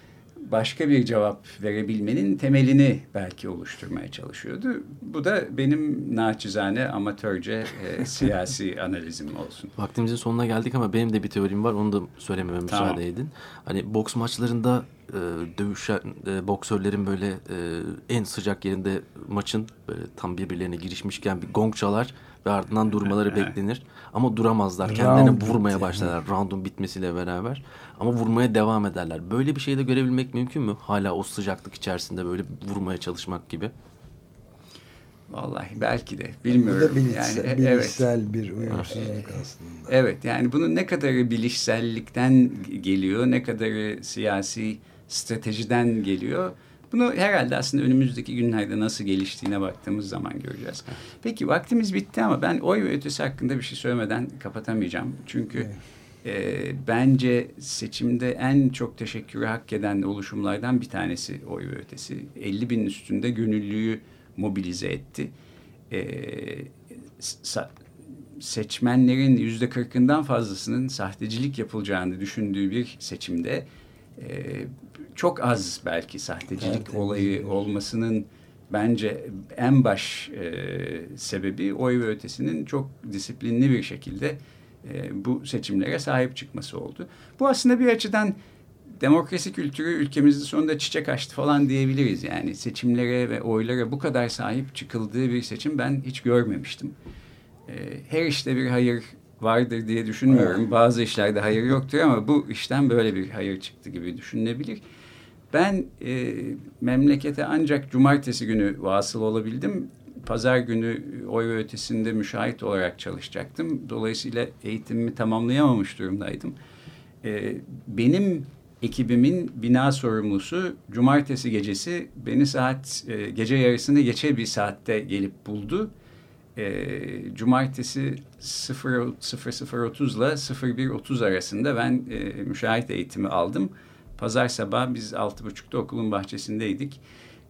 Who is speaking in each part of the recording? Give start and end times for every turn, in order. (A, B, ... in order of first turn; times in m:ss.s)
0:00.4-0:09.7 A
0:09.8-0:33.7 B
0:12.7-0:13.0 A
0:24.8-0:26.1 C
0:35.3-0:38.1 A
0:36.5-0:39.9 C
0:38.7-0:39.3 A
0:39.9-0:55.7 A
0:56.2-1:05.3 A
1:05.9-1:07.7 A
1:08.3-1:28.4 A
1:16.6-1:17.6 C
1:29.0-1:36.9 A
1:37.7-1:44.8 A
1:45.5-1:56.6 A
1:57.2-2:05.9 A
2:06.6-2:17.0 A